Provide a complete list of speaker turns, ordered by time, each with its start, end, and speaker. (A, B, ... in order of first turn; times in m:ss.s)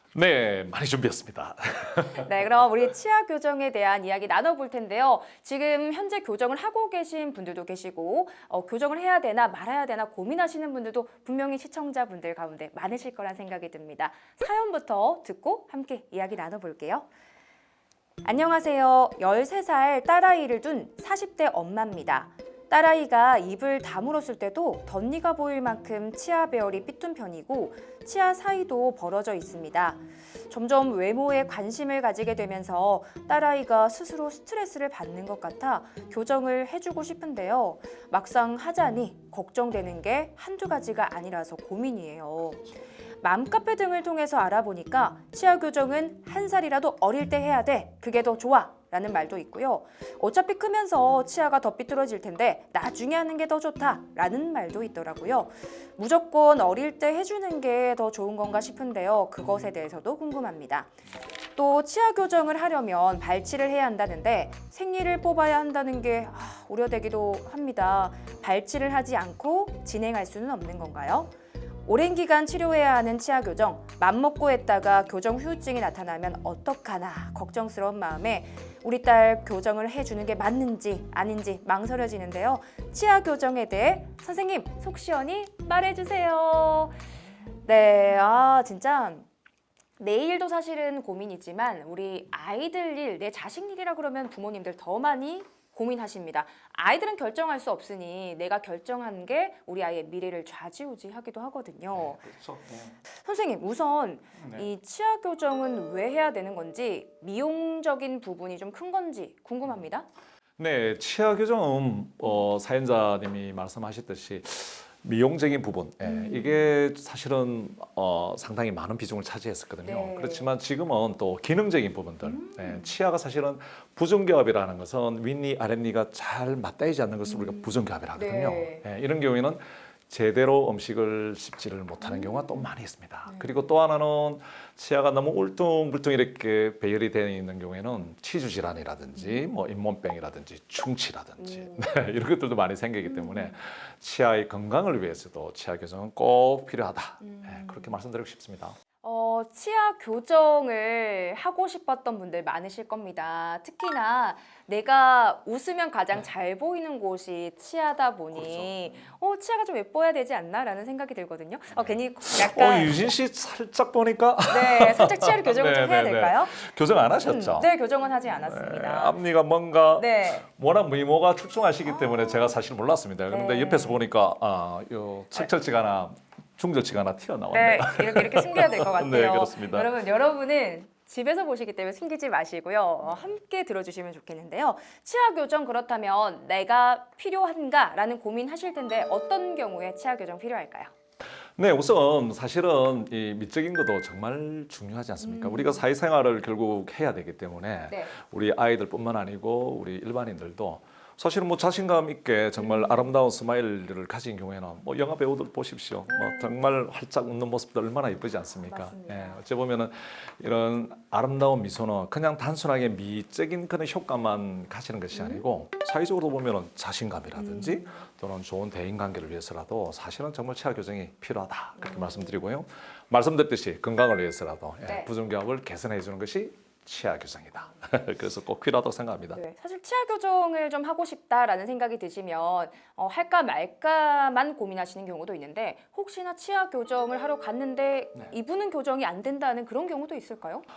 0:00.1-0:02.3 A
0:02.1-0:17.1 B
0:18.2-0:42.6 B
0:43.2-1:00.9 B
1:01.6-1:11.3 B
1:11.8-1:27.0 B
1:27.7-1:29.2 B
1:30.0-1:42.2 B
1:41.9-1:43.0 A
1:43.2-1:50.1 B
1:44.4-1:44.6 A
1:50.6-2:28.8 A
1:56.0-1:56.7 B
1:59.8-2:00.5 B
2:02.2-2:02.9 B
2:07.2-2:08.8 B
2:12.0-2:12.6 B
2:13.2-2:13.7 B
2:19.2-2:19.4 B
2:21.4-2:21.8 B
2:23.0-2:23.6 B
2:27.2-2:28.0 B
2:29.0-2:43.1 B
2:38.3-2:39.0 A
2:41.7-2:47.7 A
2:44.5-2:46.6 B
2:47.2-2:49.2 B
2:48.3-2:59.9 A
2:50.0-2:50.5 B
2:51.9-2:52.5 B
2:53.3-2:54.0 B
2:57.5-3:10.9 B
3:03.0-3:03.3 A
3:11.6-3:49.4 A
3:15.2-3:15.8 B
3:22.6-3:23.1 B
3:26.1-3:26.5 B
3:28.7-3:29.4 B
3:35.1-3:35.4 B
3:37.3-3:38.0 B
3:41.8-3:42.4 B
3:49.3-4:00.6 B